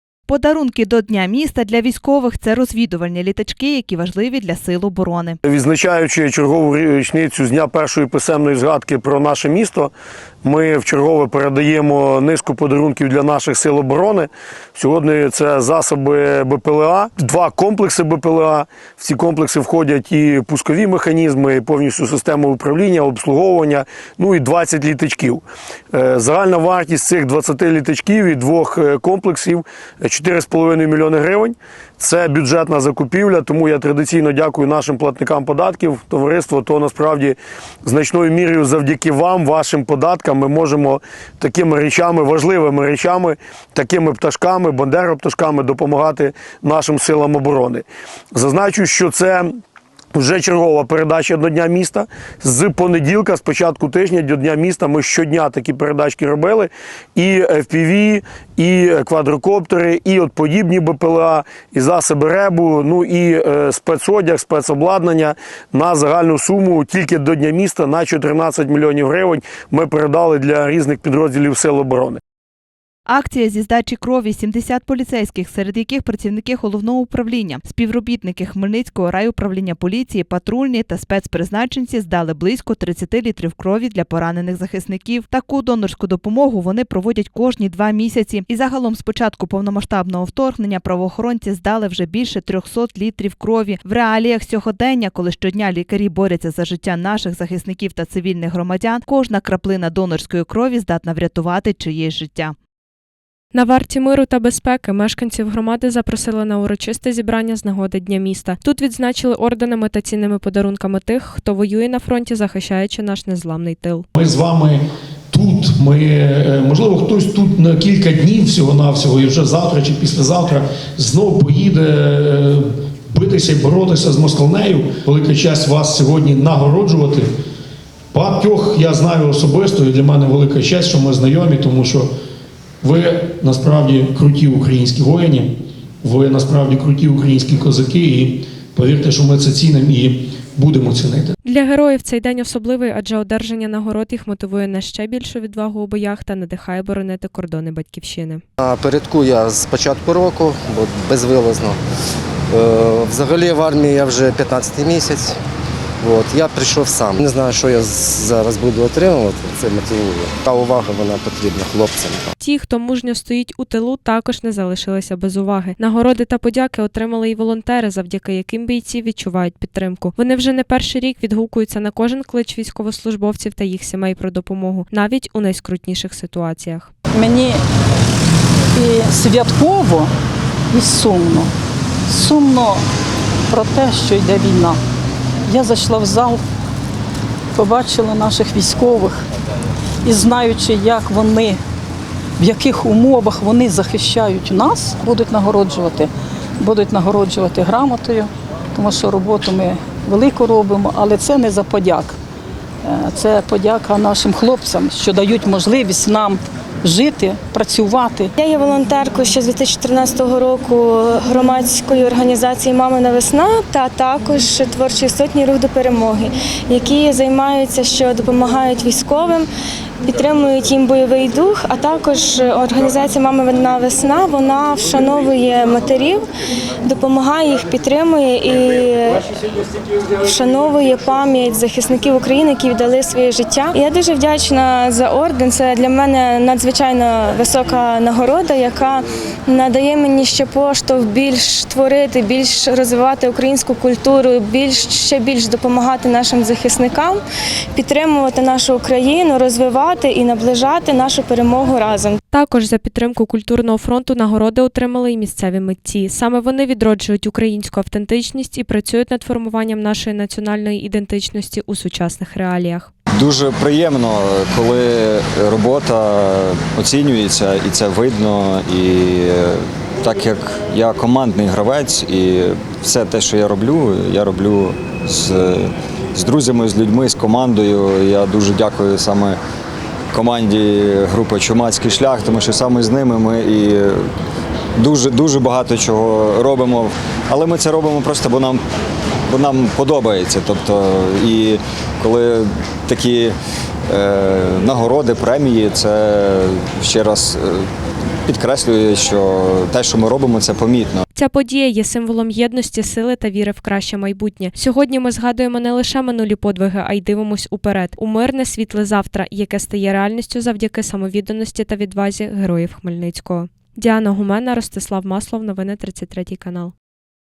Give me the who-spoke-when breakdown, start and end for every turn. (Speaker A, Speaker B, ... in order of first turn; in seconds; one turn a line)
Speaker A: 0.3-5.4
Speaker B: 5.5-9.9
Speaker B: 10.4-49.5
Speaker B: 50.1-72.2
Speaker A: 73.1-102.6
Speaker C: 103.5-114.1
Speaker D: 114.2-114.8
Speaker D: 115.3-122.6
Speaker D: 123.1-127.3
Speaker D: 128.1-132.1
Speaker D: 132.8-135.5
Speaker D: 136.0-141.3
Speaker C: 141.4-148.4
Speaker E: 148.6-151.8
Speaker E: 152.5-155.3
Speaker E: 156.0-162.2
Speaker C: 162.4-176.9
Speaker F: 177.1-177.6
Speaker F: 178.8-180.1
Speaker F: 180.7-181.5
Speaker F: 182.1-182.8
Speaker F: 183.5-184.8
Speaker F: 185.5-186.4
Speaker F: 187.6-189.2
Speaker F: 190.1-191.6
Speaker F: 192.4-202.2
Speaker F: 202.9-208.3
Speaker G: 208.4-219.4
Speaker G: 220.1-226.2
Speaker G: 226.8-229.2
Speaker G: 230.2-247.2
Speaker G: 247.8-252.2
Speaker C: 252.3-262.9
Speaker H: 263.1-279.4
Speaker H: 280.1-284.1
Speaker H: 284.8-288.6
Speaker H: 289.3-293.4
Speaker H: 293.9-297.7
Speaker H: 298.3-301.0
Speaker C: 301.1-316.7